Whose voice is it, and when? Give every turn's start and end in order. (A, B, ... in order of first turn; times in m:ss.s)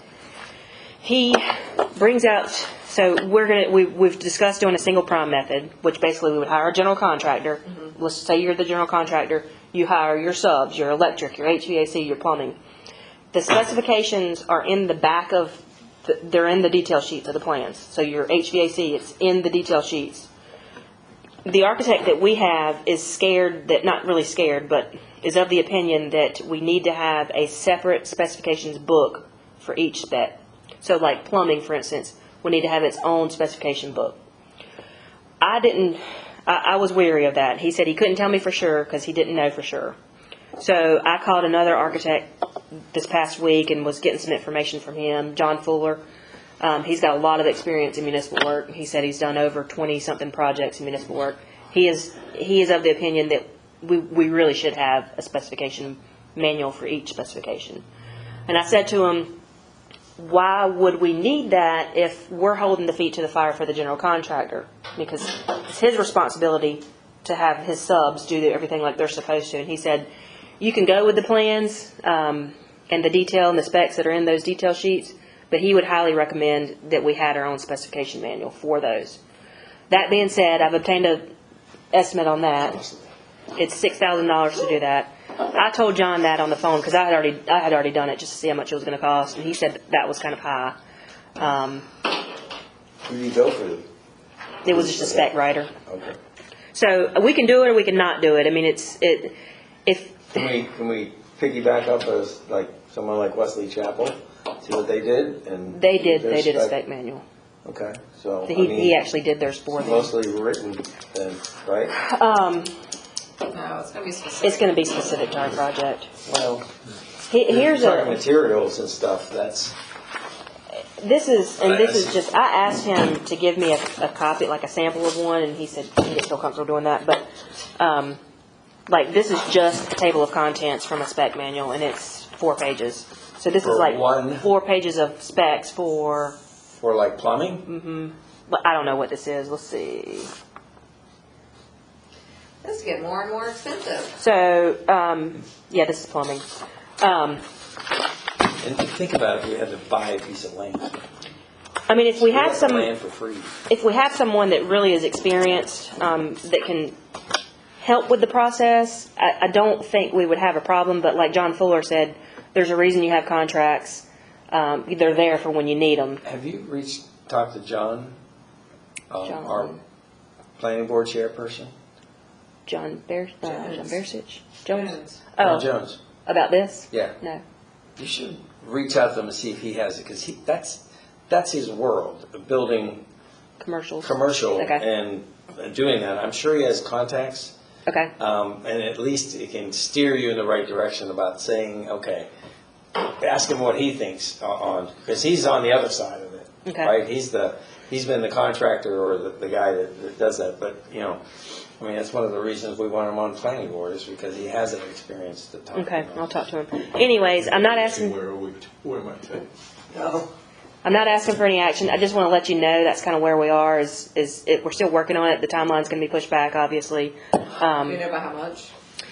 0:01.0-0:12.6 A
0:13.3-0:20.3 A
0:21.4-0:34.2 A
0:35.4-0:40.0 A
0:40.6-0:42.3 A
0:42.9-0:46.0 A
0:46.6-0:57.8 A
0:58.5-0:59.4 A
1:00.2-1:10.1 A
1:10.6-1:19.2 A
1:19.9-1:21.3 A
1:21.9-1:22.9 A
1:23.6-1:30.8 A
1:31.4-1:31.9 A
1:33.1-1:33.9 B
1:34.6-1:35.7 A
1:34.7-1:35.3 B
1:35.9-1:36.2 B
1:36.7-1:40.3 A
1:40.3-1:46.8 B
1:45.7-1:47.2 A
1:47.6-1:49.0 B
1:48.5-1:50.1 A
1:49.8-1:52.0 B
1:52.0-1:52.7 A
1:53.5-1:54.7 C
1:54.4-1:56.1 A
1:56.2-1:56.7 B
1:57.3-1:58.2 A
1:57.5-1:59.8 B
2:01.0-2:07.2 A
2:01.6-2:02.2 B
2:07.8-2:08.2 A
2:08.9-2:16.4 A
2:13.6-2:14.5 B
2:16.7-2:17.7 B
2:17.7-2:20.3 A
2:22.6-2:24.2 C
2:24.2-2:26.4 A
2:27.0-2:27.4 A
2:28.6-2:30.9 B
2:31.9-2:32.9 A
2:32.0-2:33.6 B
2:33.7-2:37.0 A
2:37.8-2:46.2 A
2:46.2-2:48.2 B
2:49.1-2:49.8 B
2:49.2-2:49.8 A
2:50.6-2:51.7 B
2:52.7-2:55.7 A
2:53.5-2:54.0 C
2:54.7-2:55.2 C
2:55.4-2:56.0 B
2:56.2-2:57.4 A
2:56.9-2:57.2 B
2:58.0-3:03.1 B
3:03.6-3:04.8 A
3:04.0-3:07.5 B
3:07.9-3:08.1 A
3:08.2-3:12.3 B
3:13.0-3:21.2 B
3:16.6-3:16.9 A
3:21.8-3:26.2 B
3:25.8-3:28.2 A
3:27.5-3:29.5 D
3:29.9-3:30.3 B
3:30.8-3:38.0 A
3:37.8-3:38.7 C